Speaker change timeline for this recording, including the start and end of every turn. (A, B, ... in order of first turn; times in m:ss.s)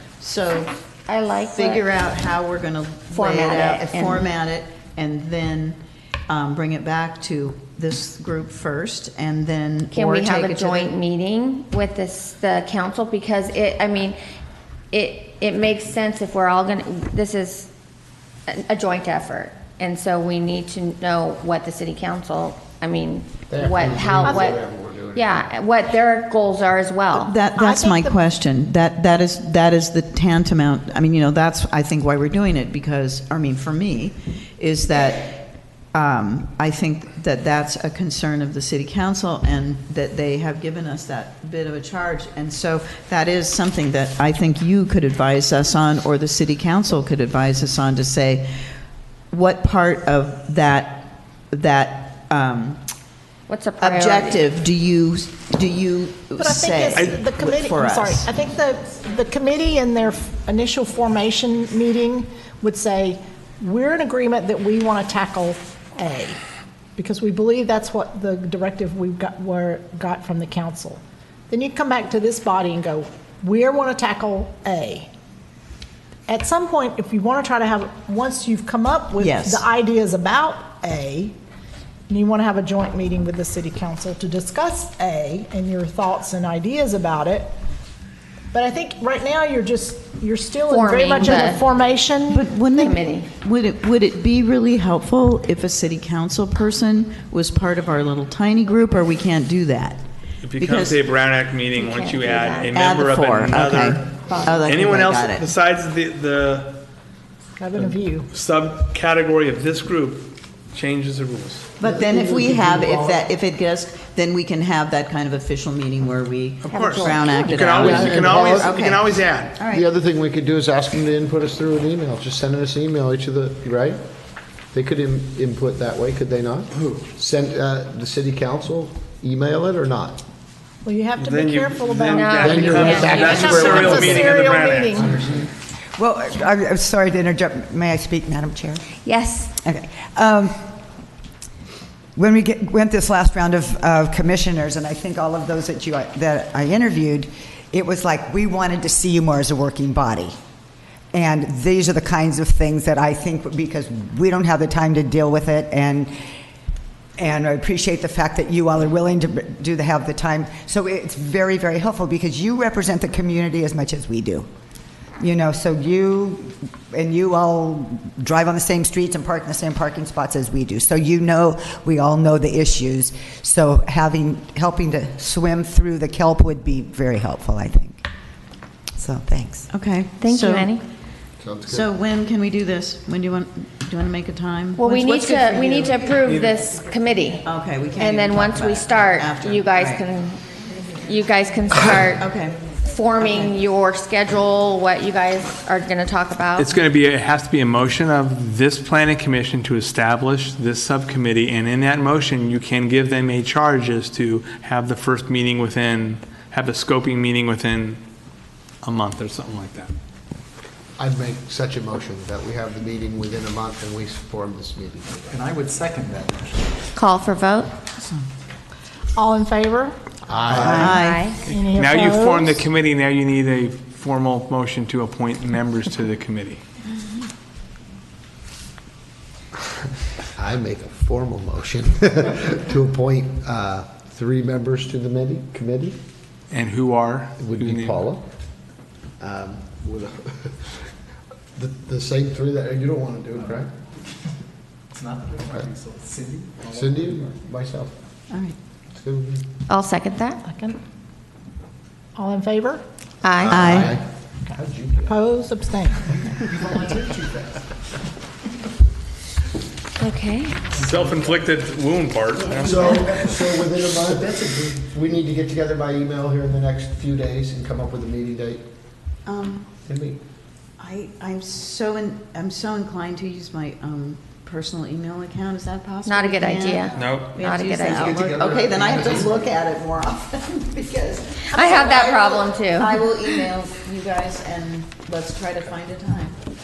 0:00.2-0:00.7 A
0:01.1-0:01.8 B
0:01.5-0:05.8 A
0:03.1-0:04.3 B
0:06.3-0:10.9 A
0:09.9-0:14.2 B
0:14.9-0:17.7 B
0:18.5-0:27.4 B
0:23.5-0:25.4 C
0:27.1-0:48.5 A
0:27.5-0:28.2 D
0:49.3-0:52.8 A
0:53.5-0:54.4 B
0:53.8-0:58.3 A
0:56.4-1:06.4 D
1:07.0-1:15.1 D
1:16.3-1:21.3 D
1:19.2-1:19.7 A
1:22.1-1:27.5 D
1:28.5-1:32.8 D
1:30.7-1:31.6 B
1:32.3-1:40.0 A
1:32.8-1:33.3 B
1:40.4-1:46.8 E
1:40.6-1:41.0 A
1:41.7-1:42.7 B
1:42.7-1:45.5 A
1:44.3-1:44.6 B
1:47.6-1:48.3 D
1:47.7-1:51.7 E
1:51.8-1:59.8 A
1:51.8-1:53.2 C
1:56.6-1:59.6 E
1:56.7-1:57.3 B
1:57.8-1:58.8 C
1:59.6-2:04.0 C
2:04.7-2:10.2 C
2:10.8-2:15.2 D
2:11.2-2:15.0 E
2:12.0-2:13.5 B
2:12.4-2:15.5 C
2:16.0-2:18.8 F
2:19.0-2:19.5 B
2:19.6-2:20.6 F
2:22.2-2:30.3 F
2:31.1-2:36.2 F
2:37.2-2:44.5 F
2:45.2-2:58.0 F
2:59.0-2:59.7 F
2:59.7-3:00.7 A
3:00.2-3:00.8 B
3:01.4-3:01.9 C
3:01.7-3:06.0 A
3:04.8-3:07.4 B
3:07.4-3:10.0 A
3:08.0-3:16.7 B
3:12.1-3:13.5 A
3:16.6-3:28.0 E
3:28.8-3:29.9 E
3:31.0-3:35.4 C
3:35.3-3:36.8 G
3:36.9-3:37.8 B
3:39.2-3:40.0 D
3:40.3-3:40.9 C
3:40.6-3:41.3 A
3:40.7-3:42.6 D
3:40.8-3:41.4 B
3:41.4-3:46.6 E
3:50.4-3:56.0 C
3:56.5-3:58.0 E
3:57.4-3:58.2 C
3:59.2-4:00.9 C
4:01.6-4:03.7 C
4:03.4-4:03.6 G
4:04.9-4:07.4 G
4:06.7-4:07.9 C
4:08.9-4:09.4 C
4:09.7-4:10.4 B
4:10.4-4:10.8 D
4:12.1-4:12.8 D
4:13.2-4:13.6 B
4:13.4-4:15.2 C
4:13.5-4:14.0 A
4:15.0-4:16.0 D
4:16.1-4:17.2 C
4:16.5-4:17.5 G
4:20.0-4:20.7 B
4:20.7-4:21.3 G
4:20.8-4:22.8 E
4:22.5-4:23.0 A
4:22.6-4:28.6 C
4:22.8-4:24.9 G
4:29.2-4:29.7 A
4:29.8-4:30.2 C
4:30.8-4:46.4 A
4:36.0-4:38.8 B
4:36.9-4:37.4 E
4:37.9-4:39.6 C
4:41.5-4:43.1 B